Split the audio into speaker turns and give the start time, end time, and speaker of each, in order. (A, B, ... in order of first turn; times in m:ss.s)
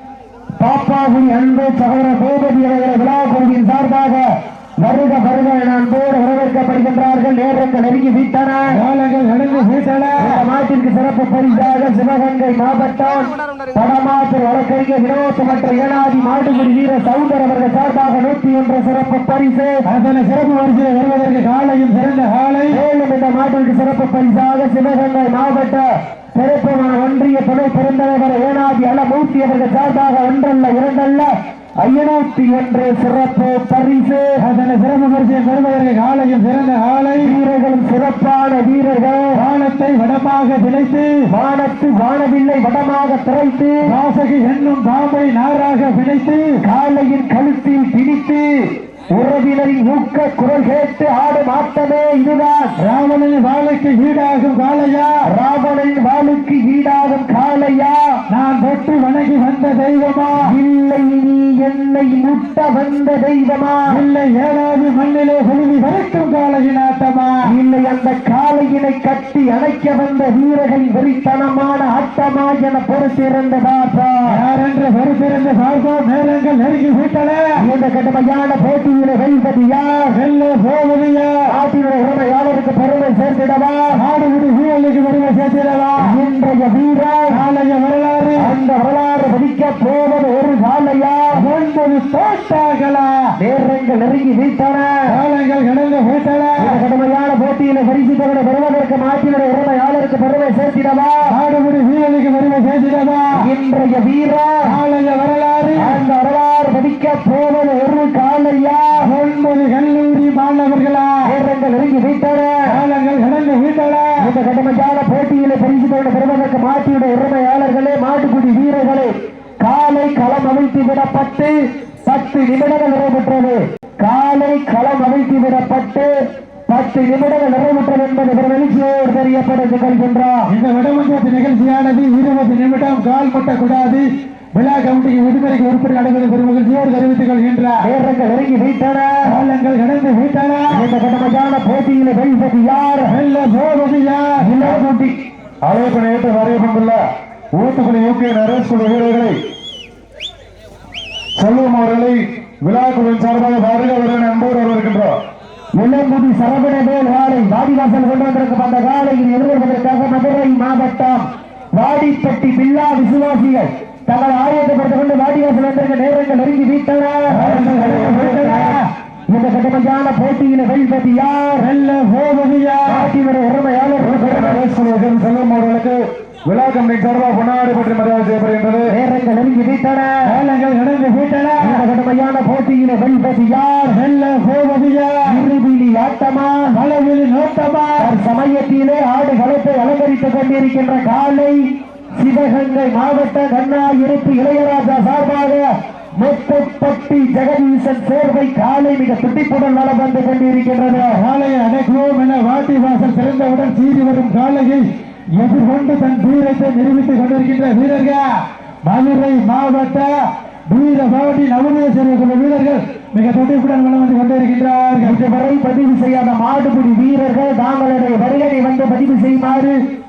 0:00.6-0:08.8 A
0:08.7-0:10.4 B
0:10.2-0:19.8 A
0:19.8-0:22.8 B
0:22.7-0:34.4 A
0:34.4-0:37.3 B
0:37.2-0:39.4 A
0:39.3-0:41.2 B
0:41.3-0:43.9 A
0:43.8-0:46.6 B
0:46.6-0:52.7 A
0:52.8-0:55.2 B
0:55.2-0:58.2 A
0:58.3-1:00.5 B
1:00.4-1:04.0 A
1:03.9-1:07.4 B
1:07.4-1:14.4 A
1:14.3-1:17.4 B
1:17.6-1:20.1 A
1:20.1-1:21.5 B
1:21.5-1:24.0 A
1:23.9-1:26.1 B
1:26.0-1:27.4 A
1:27.3-1:28.5 B
1:28.4-1:31.4 A
1:31.3-1:33.1 B
1:33.4-1:35.1 A
1:35.1-1:36.8 B
1:36.6-1:41.3 A
1:41.3-1:43.3 B
1:43.4-1:44.7 A
1:44.6-1:46.0 B
1:45.8-1:49.0 A
1:49.0-1:51.2 B
1:51.2-1:52.7 A
1:52.7-1:54.2 B
1:54.2-2:06.1 A
2:06.7-2:10.5 A
2:10.5-2:17.8 B
2:17.8-2:19.3 A
2:19.3-2:20.8 B
2:20.7-2:23.2 A
2:23.1-2:24.4 B
2:24.4-2:25.2 A
2:25.6-2:27.0 C
2:27.5-2:29.4 C
2:31.4-2:35.2 C
2:35.8-2:48.8 A
2:47.3-2:48.9 B
2:47.4-2:48.3 C
2:49.3-2:51.7 A
2:51.6-2:53.1 B
2:52.8-2:54.6 A
2:54.0-2:58.9 C
2:58.9-3:00.2 A
3:00.3-3:01.8 B
3:01.6-3:04.0 A
3:03.9-3:05.4 B
3:05.2-3:06.8 A
3:06.7-3:08.1 B
3:08.0-3:11.6 A
3:12.2-3:21.2 A
3:20.9-3:24.8 B
3:25.4-3:28.2 B
3:28.8-3:30.1 B
3:30.7-3:35.2 B
3:35.0-3:39.8 A